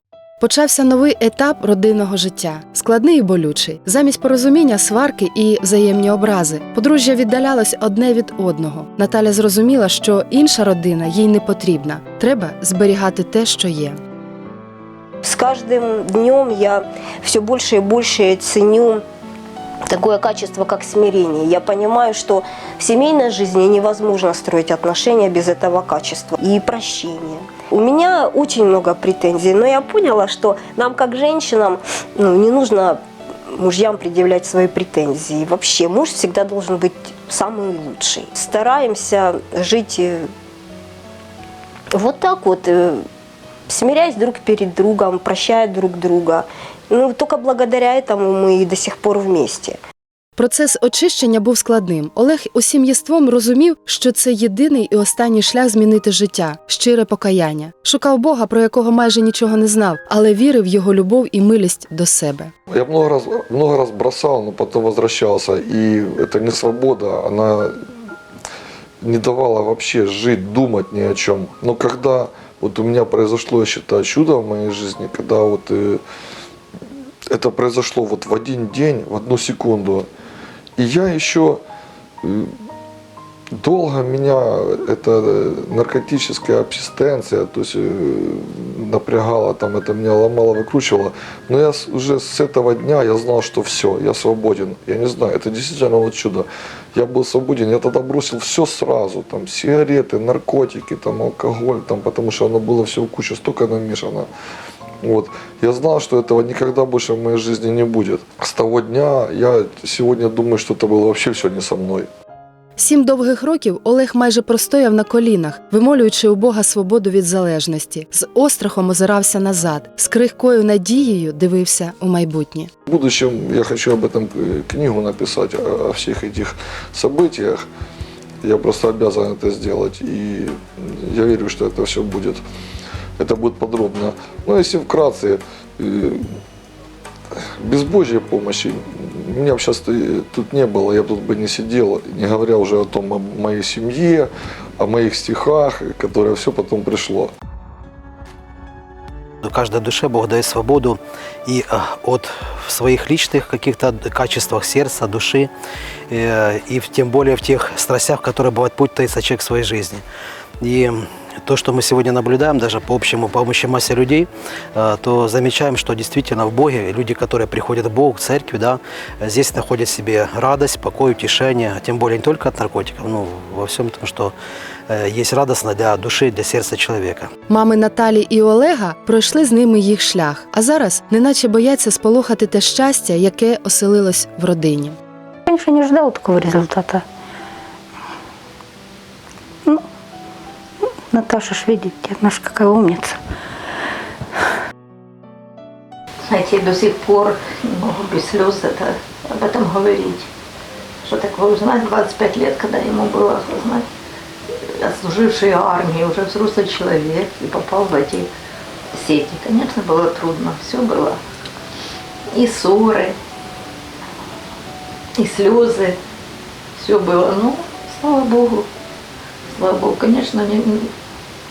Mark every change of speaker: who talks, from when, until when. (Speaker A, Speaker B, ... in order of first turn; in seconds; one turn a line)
Speaker A: 0.4-14.0
Speaker B: 15.2-19.0
Speaker B: 19.9-40.3
Speaker B: 41.9-43.0
Speaker B: 43.7-49.8
Speaker A: 50.4-62.5
Speaker C: 62.7-67.9
Speaker C: 69.0-76.0
Speaker C: 77.3-80.1
Speaker C: 80.8-81.6
Speaker C: 82.2-82.5
Speaker C: 83.5-104.3
Speaker C: 105.0-112.1
Speaker A: 112.8-122.7
Speaker C: 123.1-127.7
Speaker C: 128.4-132.4
Speaker C: 133.2-136.4
Speaker C: 137.4-147.3
Speaker D: 149.4-155.5
Speaker D: 156.1-160.0
Speaker D: 160.6-174.3
Speaker D: 174.9-177.3
Speaker A: 177.5-185.0
Speaker E: 185.4-187.0
Speaker E: 191.1-193.2
Speaker F: 196.2-200.3
Speaker F: 201.0-203.9
Speaker F: 204.6-208.3
Speaker F: 208.9-211.2
Speaker F: 212.3-213.2
Speaker F: 215.2-216.0
Speaker F: 216.8-218.7
Speaker F: 219.5-220.9